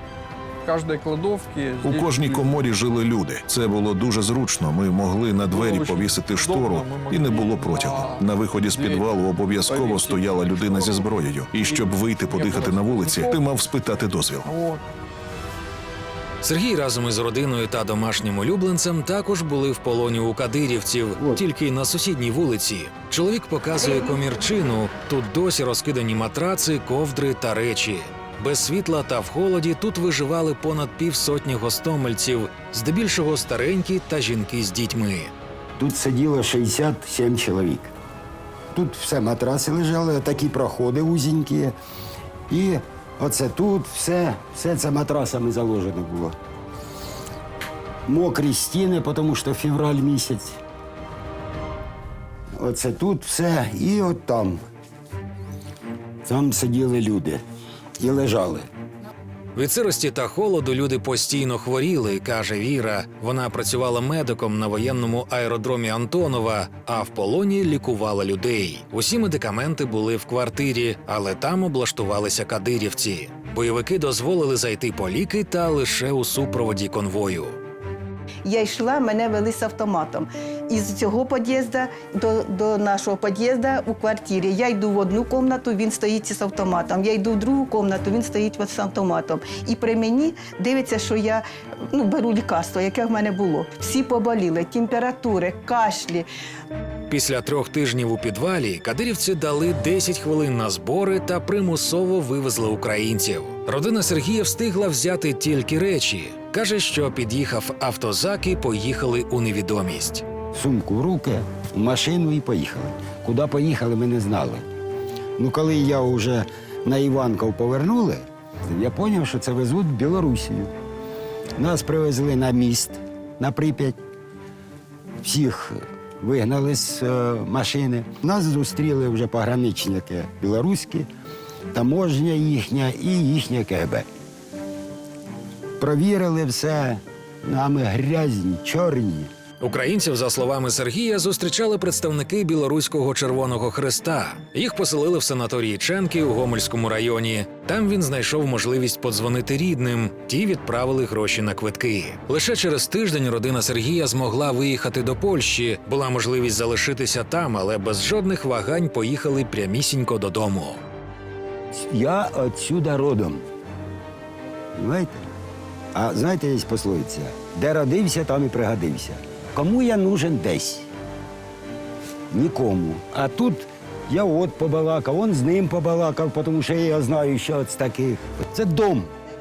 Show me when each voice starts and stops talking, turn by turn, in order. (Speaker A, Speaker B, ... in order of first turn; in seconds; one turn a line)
Speaker A: 0.7-2.6
Speaker B: 1.8-14.5
Speaker A: 5.5-13.4
Speaker A: 14.4-14.8
Speaker C: 16.4-35.3
Speaker D: 21.2-21.4
Speaker D: 35.8-37.9
Speaker D: 38.7-41.7
Speaker D: 42.5-46.3
Speaker D: 48.1-50.6
Speaker D: 52.6-54.6
Speaker D: 56.2-57.4
Speaker D: 58.0-58.7
Speaker C: 59.5-77.6
Speaker E: 78.5-96.3
Speaker C: 97.1-110.2
Speaker D: 110.5-114.6
Speaker D: 115.4-120.7
Speaker D: 121.6-124.0
Speaker D: 125.2-131.1
Speaker D: 131.7-134.1
Speaker D: 135.8-139.3
Speaker C: 139.6-160.8
Speaker D: 161.8-163.4
Speaker D: 164.8-165.2
Speaker D: 165.9-170.9
Speaker D: 172.3-179.1